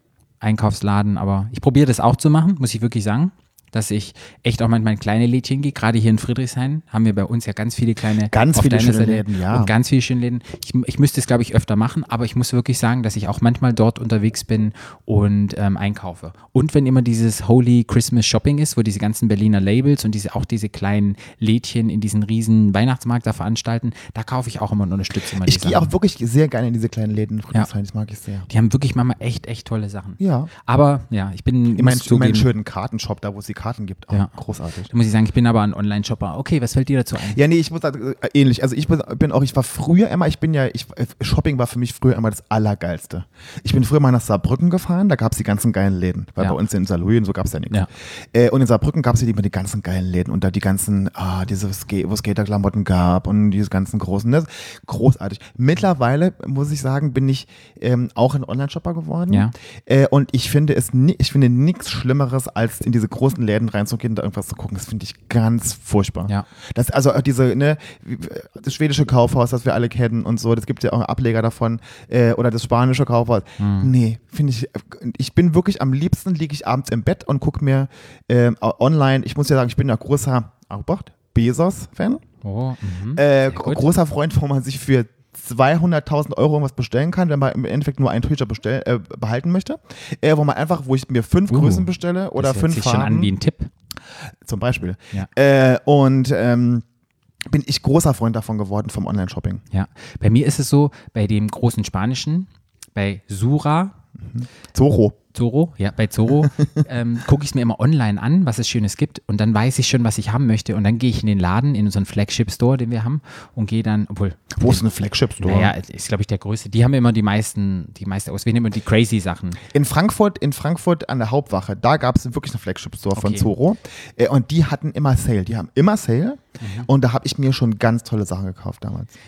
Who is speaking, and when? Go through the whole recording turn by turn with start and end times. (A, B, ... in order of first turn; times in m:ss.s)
0:00.4-0:25.9 A
0:08.2-0:09.7 B
0:25.4-0:28.5 B
0:28.5-0:32.5 A
0:30.2-0:30.5 B
0:31.7-0:34.9 B
0:34.9-0:37.4 A
0:37.2-1:22.2 B
1:13.6-1:13.9 A
1:22.4-1:23.8 A
1:23.1-1:33.3 B
1:31.5-1:33.7 A
1:34.4-1:36.8 B
1:37.4-1:39.6 B
1:39.7-1:44.0 A
1:44.2-1:45.2 B
1:45.3-1:54.8 A
1:54.6-1:55.7 B
1:55.4-1:59.6 A
1:59.6-2:09.1 B
2:03.1-2:03.5 A
2:06.6-2:06.9 A